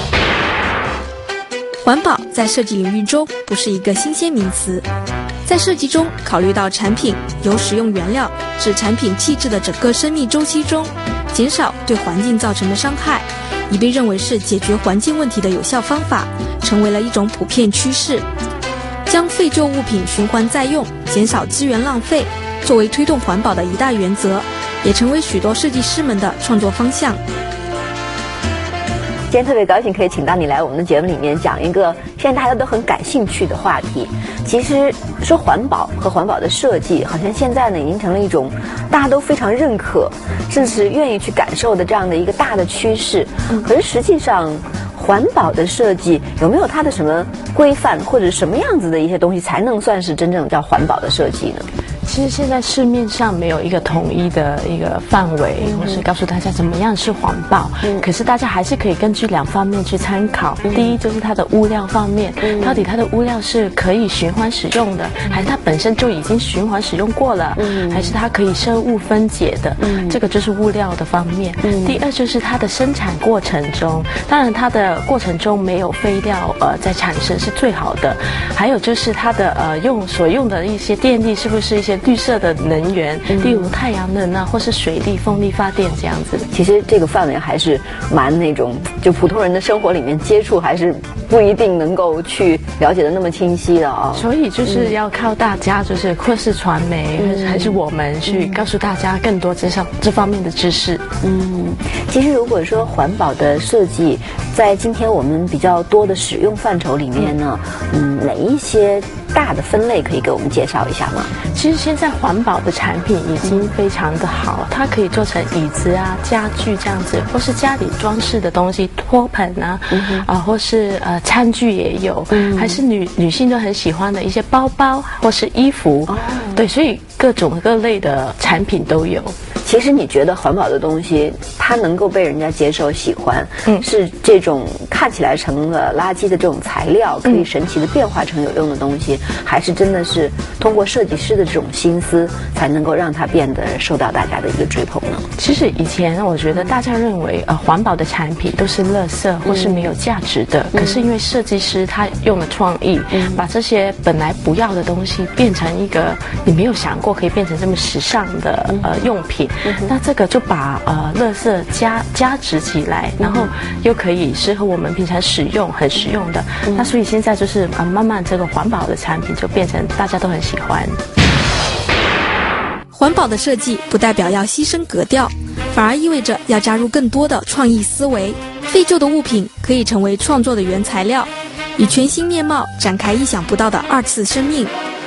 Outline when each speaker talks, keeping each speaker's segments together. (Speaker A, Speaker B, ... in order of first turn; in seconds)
Speaker A: 1.8-4.8, 5.4-18.2, 19.1-27.2, 172.9-184.7
Speaker B: 29.3-51.7, 55.6-56.0, 60.6-61.0, 62.4-62.9, 67.5-68.2, 69.8-70.2, 71.6-72.0, 83.3-83.7, 86.5-94.9, 97.2-98.6, 101.2-111.3, 113.4-113.7, 119.9-120.3, 122.3-122.8, 126.1-126.6, 129.6-145.2, 149.4-149.9, 150.7-151.0, 153.1-153.4, 159.6-159.9, 163.2-163.5, 166.7-166.9
Speaker C: 52.0-86.5, 94.1-101.0, 111.5-129.3, 145.4-171.0